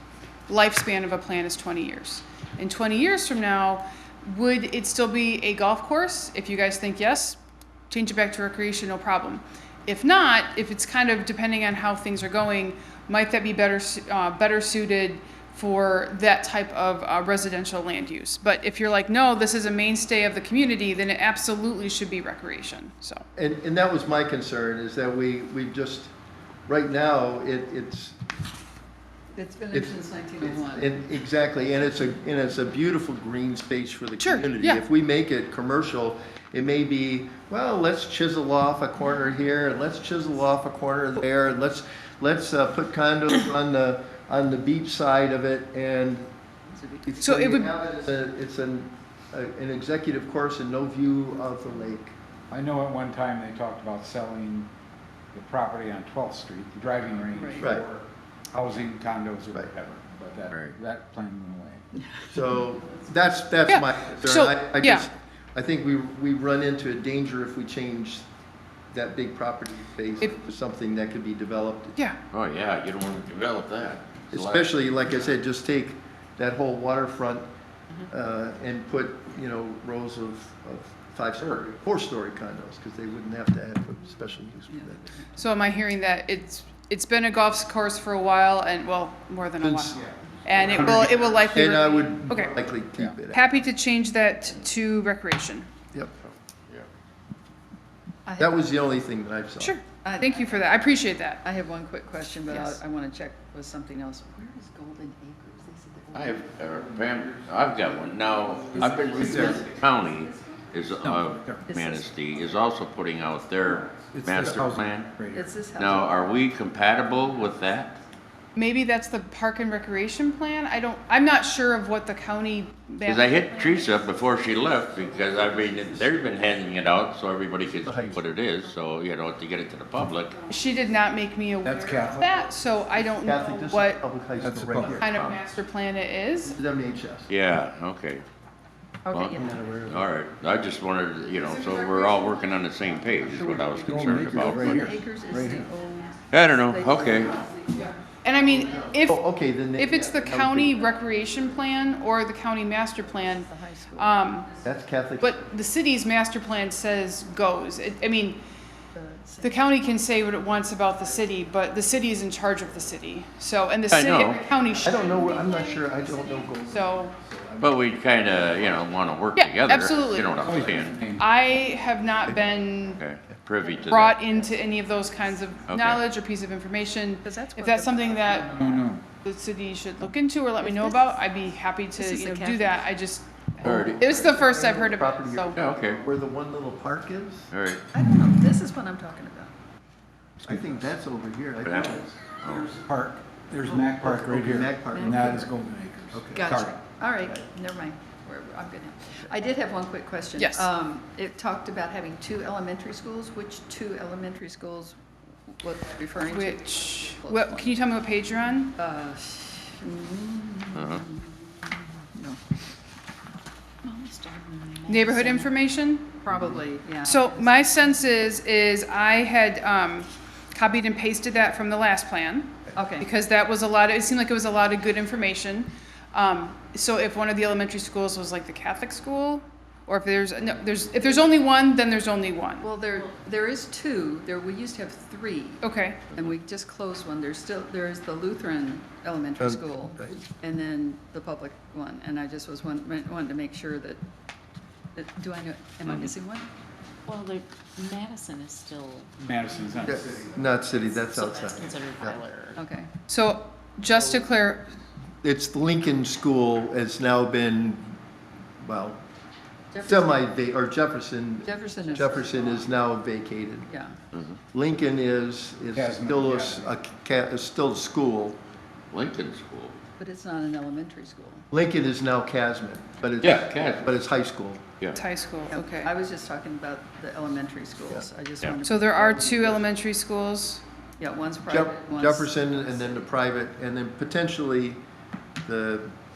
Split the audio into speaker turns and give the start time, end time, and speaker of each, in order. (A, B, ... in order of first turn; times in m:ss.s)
0:00.5-0:07.4 A
0:07.9-0:23.2 A
0:23.4-0:26.1 B
0:26.7-0:28.2 B
0:29.3-0:30.9 C
0:29.7-0:46.3 B
0:34.2-0:34.8 A
0:46.7-0:47.3 C
0:47.1-0:52.2 B
0:47.2-0:47.7 A
0:52.5-0:54.7 D
0:55.3-1:01.8 D
0:57.3-0:57.7 C
0:57.6-0:57.9 B
1:00.5-1:00.8 E
1:02.3-1:08.3 B
1:03.7-1:05.1 A
1:08.9-1:12.0 B
1:12.3-1:14.9 E
1:14.3-1:17.5 B
1:18.1-1:25.1 B
1:24.7-1:25.3 C
1:25.4-1:32.5 A
1:29.6-1:31.5 D
1:31.2-1:33.5 B
1:33.3-1:35.7 A
1:36.2-1:36.9 E
1:38.3-1:38.7 C
1:38.4-1:39.8 B
1:39.6-1:41.4 A
1:40.0-1:46.6 C
1:42.5-1:42.8 A
1:46.1-1:55.1 E
1:46.7-1:49.8 D
1:49.0-1:50.9 C
1:51.0-1:51.7 D
1:51.6-1:52.4 C
1:53.9-1:55.6 D
1:55.3-1:56.4 C
1:55.8-1:58.0 E
1:58.6-2:03.6 A
2:03.0-2:10.4 E
2:03.8-2:04.5 F
2:05.3-2:06.4 B
2:07.8-2:08.2 B
2:10.5-2:14.0 A
2:11.6-2:12.3 D
2:13.2-2:15.2 B
2:14.4-2:15.0 D
2:15.0-2:16.6 A
2:15.0-2:15.4 E
2:16.4-2:17.3 B
2:17.3-2:18.2 E
2:19.0-2:19.9 C
2:19.1-2:25.0 E
2:19.4-2:20.0 B
2:21.4-2:23.1 A
2:23.3-2:27.9 C
2:23.8-2:25.7 D
2:24.4-2:24.8 B
2:26.3-2:27.4 E
2:27.7-2:29.2 A
2:28.5-2:30.9 B
2:29.8-2:34.5 A
2:33.2-2:34.8 C
2:34.6-2:35.5 B
2:35.2-2:38.4 A
2:38.9-2:39.7 C
2:39.4-2:45.5 A
2:43.9-2:44.4 E
2:44.3-2:46.4 C
2:44.8-2:49.1 B
2:46.6-2:47.1 A
2:47.6-2:51.0 E
2:49.4-2:50.5 A
2:49.8-2:50.7 B
2:50.4-2:51.3 D
2:51.2-2:53.0 A
2:52.9-2:54.2 E
2:53.9-2:58.5 A
2:55.7-2:56.0 E
2:57.2-2:58.9 C
2:58.6-2:59.0 D
2:59.2-3:05.6 A
3:00.6-3:01.2 F
3:02.0-3:02.9 F
3:03.6-3:04.1 E
3:03.7-3:07.5 B
3:05.5-3:06.0 E
3:07.5-3:07.9 E
3:07.9-3:09.5 C
3:10.4-3:12.1 B
3:10.5-3:10.8 D
3:11.6-3:12.8 E
3:11.9-3:16.8 D
3:13.7-3:15.5 B
3:14.9-3:15.5 C
3:16.1-3:16.5 B
3:16.3-3:25.0 C
3:20.4-3:20.7 A
3:25.5-3:27.8 C
3:26.2-3:28.8 A
3:28.8-3:32.4 C
3:30.7-3:31.0 E
3:33.8-3:35.4 F
3:34.9-3:36.2 A
3:36.2-3:37.9 C
3:37.0-3:52.7 A
3:42.8-3:43.1 C
3:52.6-4:04.0 C
3:55.6-3:56.0 A
3:56.1-3:56.4 E
3:59.4-4:00.2 B
4:05.0-4:06.5 C
4:05.9-4:06.1 E
4:07.1-4:09.2 F
4:09.2-4:10.5 D
4:09.8-4:12.2 B
4:10.7-4:12.6 F
4:12.6-4:12.9 C
4:13.1-4:14.7 A
4:15.2-4:18.0 B
4:18.6-4:19.0 B
4:19.7-4:20.3 C
4:19.8-4:23.7 B
4:21.4-4:22.7 C
4:23.7-4:24.0 C
4:24.1-4:24.4 E
4:24.5-4:28.4 B
4:25.7-4:26.7 D
4:28.9-4:29.8 E
4:30.0-4:31.5 C
4:31.5-4:34.6 B
4:33.2-4:33.9 E
4:35.0-4:35.9 A
4:35.5-4:39.5 C
4:38.6-4:40.6 A
4:41.0-4:43.2 C
4:41.5-4:44.8 B
4:45.4-4:45.9 B